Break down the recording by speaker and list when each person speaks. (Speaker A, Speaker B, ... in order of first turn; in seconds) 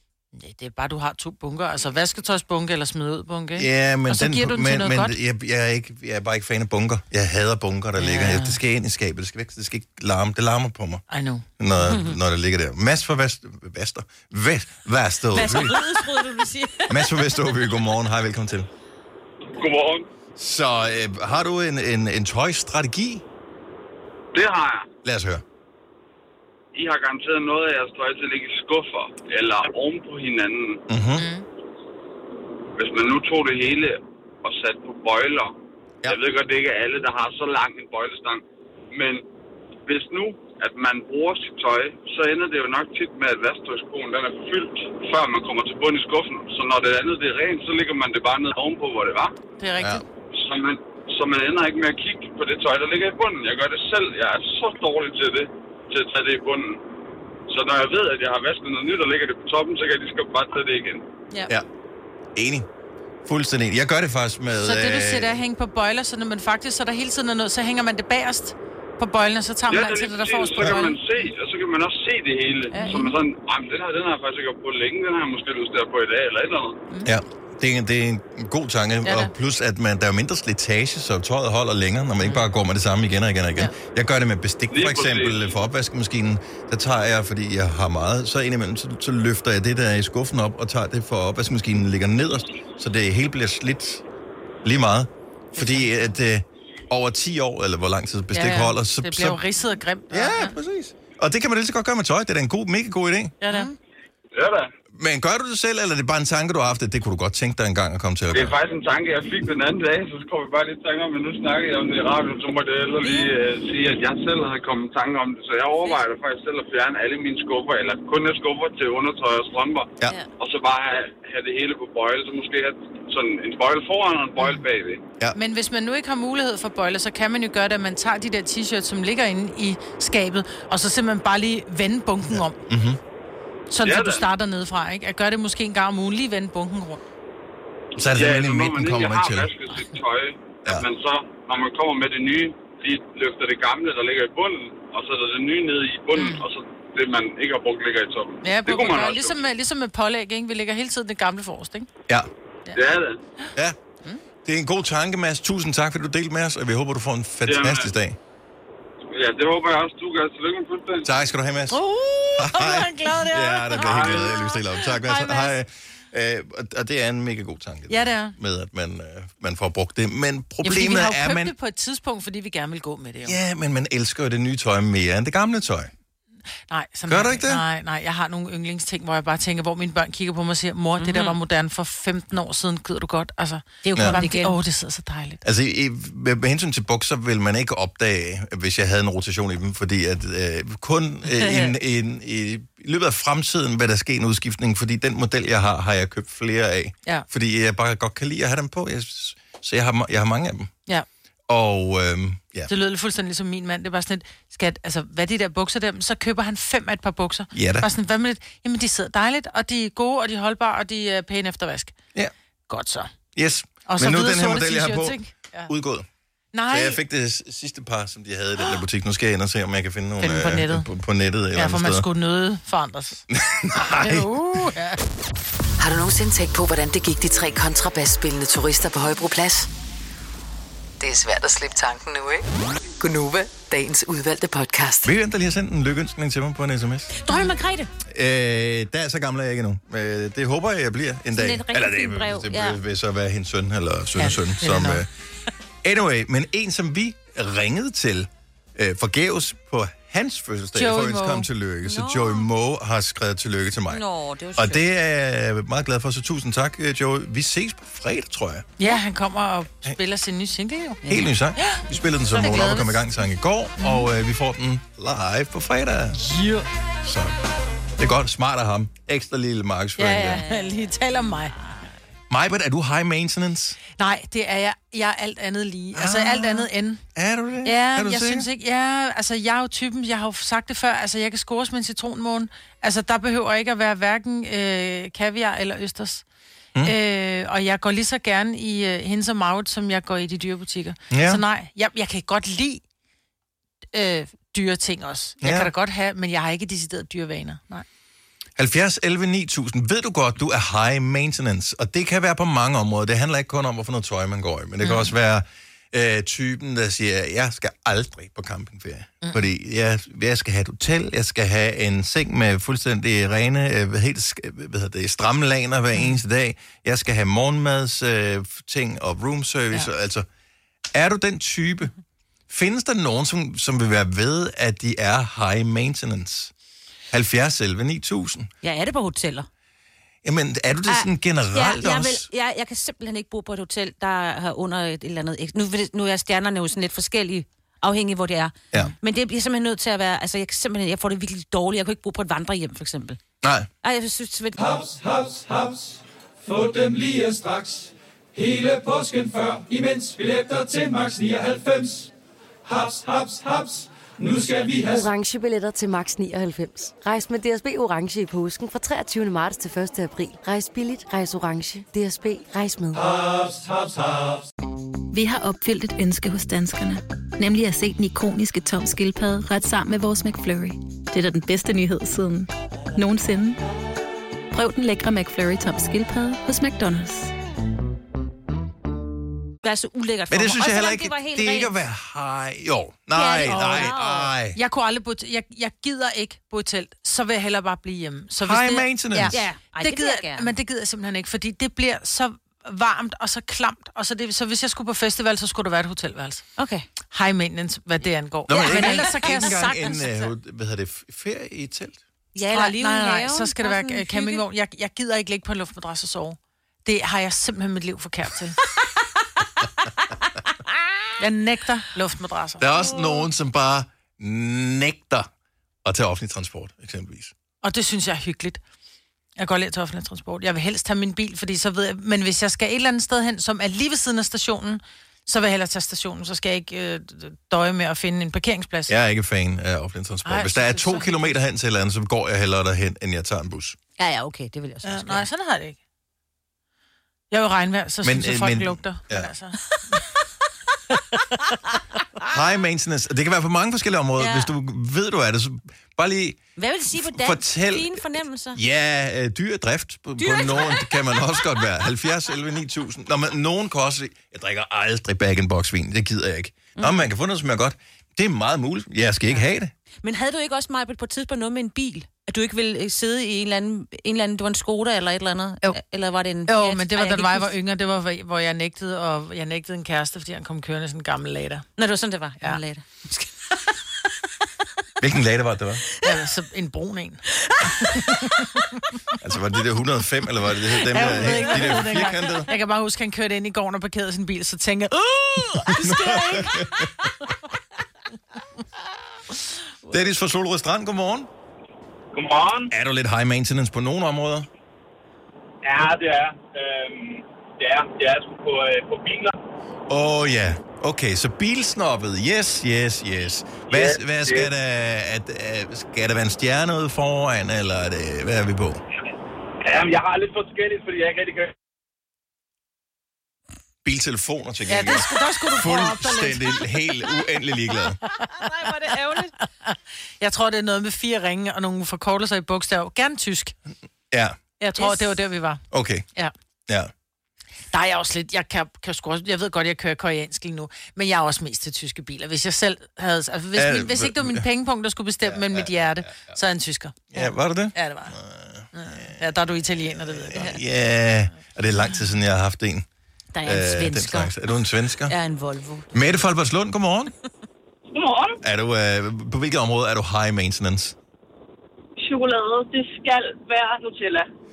Speaker A: 0.3-5.2, 8.0-8.6, 11.1-11.4, 31.2-31.4, 49.6-50.0, 64.6-71.0, 72.7-73.1, 79.0-79.3, 82.2-82.5, 95.5-95.9, 98.3-100.5, 103.4-103.7, 125.3-132.6, 133.7-137.0, 146.1-146.4, 148.4-151.9, 161.7-165.5, 167.9-168.3, 170.6-173.4, 176.7-185.4, 191.4-191.7, 202.7-211.9, 212.7-213.1, 213.8-215.7, 216.5-217.0, 220.2-220.9, 221.5-223.2, 224.0-225.0, 244.2-245.0, 250.7-251.5, 258.8-262.9, 266.1-266.6, 270.0-271.5, 274.0-277.0, 277.6-286.2, 286.8-292.8, 293.9-297.8, 304.8-305.1, 315.9-316.2, 383.4-383.9, 384.5-396.4, 397.1-400.2, 402.5-408.6, 411.2-412.7, 417.6-418.6, 419.4-428.9, 430.2-431.3, 434.8-435.8, 437.3-439.6, 466.5-471.6, 476.0-477.2, 477.9-478.5, 480.9-486.7, 514.7-516.6, 519.6-523.5, 524.6-525.6, 527.7-537.1, 537.7-538.1, 538.7-540.6
Speaker B: 3.6-11.0, 11.6-16.0, 16.9-18.7, 20.4-23.2, 25.0-25.4, 30.9-31.3, 62.3-62.7, 63.2-65.4, 77.0-94.0, 94.6-99.4, 100.1-103.4, 104.9-108.5, 132.3-133.0, 138.0-139.5, 154.4-158.2, 161.0-161.8, 162.4-171.5, 173.2-175.9, 177.1-177.6, 185.4-200.7, 201.5-202.7, 207.5-207.9, 213.3-216.1, 216.7-222.1, 223.3-224.7, 235.0-237.1, 238.1-245.1, 245.8-254.0, 254.6-258.6, 261.1-266.2, 267.0-267.3, 268.0-270.4, 272.3-273.8, 275.9-278.5, 291.1-291.4, 295.4-295.7, 298.6-320.2, 320.9-321.9, 322.5-326.5, 327.1-328.5, 330.2-332.2, 343.4-343.7, 380.3-384.6, 388.4-389.4, 398.5-402.0, 412.6-415.3, 415.8-417.3, 428.9-433.8, 438.0-439.3, 442.3-448.0, 448.5-459.7, 475.0-475.8, 479.2-482.5, 485.7-486.9, 489.9-491.3, 492.7-494.5, 499.9-508.8, 513.8-518.0, 524.1-524.4, 525.7-526.0, 533.5-534.4, 535.2-536.3, 537.1-539.2, 539.8-542.9, 543.4-545.1, 545.9-547.1, 548.4-550.9
Speaker C: 11.8-12.2, 15.3-17.6, 103.5-103.7, 181.0-181.4, 183.8-184.6, 237.2-237.9, 241.3-242.8, 251.8-252.5, 253.9-254.8, 262.4-262.8, 270.3-270.9, 328.6-329.5, 330.9-343.2, 343.8-344.6, 379.6-381.7, 383.1-384.3, 389.3-390.5, 396.6-396.9, 398.5-400.0, 402.3-404.4, 413.0-413.2, 434.0-435.3, 444.2-444.5, 446.6-448.6, 450.2-451.0, 456.8-457.1, 460.0-467.5, 471.8-473.7, 481.2-482.1, 518.2-519.3, 524.8-525.1, 543.3-544.5, 545.1-545.9
Speaker D: 19.5-20.1, 24.3-24.9, 26.7-30.8, 32.8-35.5, 36.0-39.2, 39.9-49.3, 50.3-56.8, 57.5-61.0, 69.7-76.8, 84.7-85.5, 104.3-104.7, 108.3-125.0, 133.8-134.2, 138.1-149.4, 152.7-153.2, 157.4-157.9, 159.1-161.1, 163.8-164.2
Speaker E: 225.8-229.7, 231.0-232.4, 233.0-235.1
Speaker F: 344.6-352.1, 352.6-355.1, 362.9-364.5
Speaker G: 354.9-363.1
Speaker H: 365.1-373.6, 374.5-377.3
Speaker I: 492.1-492.6, 495.6-499.3, 503.7-504.5, 509.7-511.4
Speaker J: 547.9-548.4, 552.0-554.3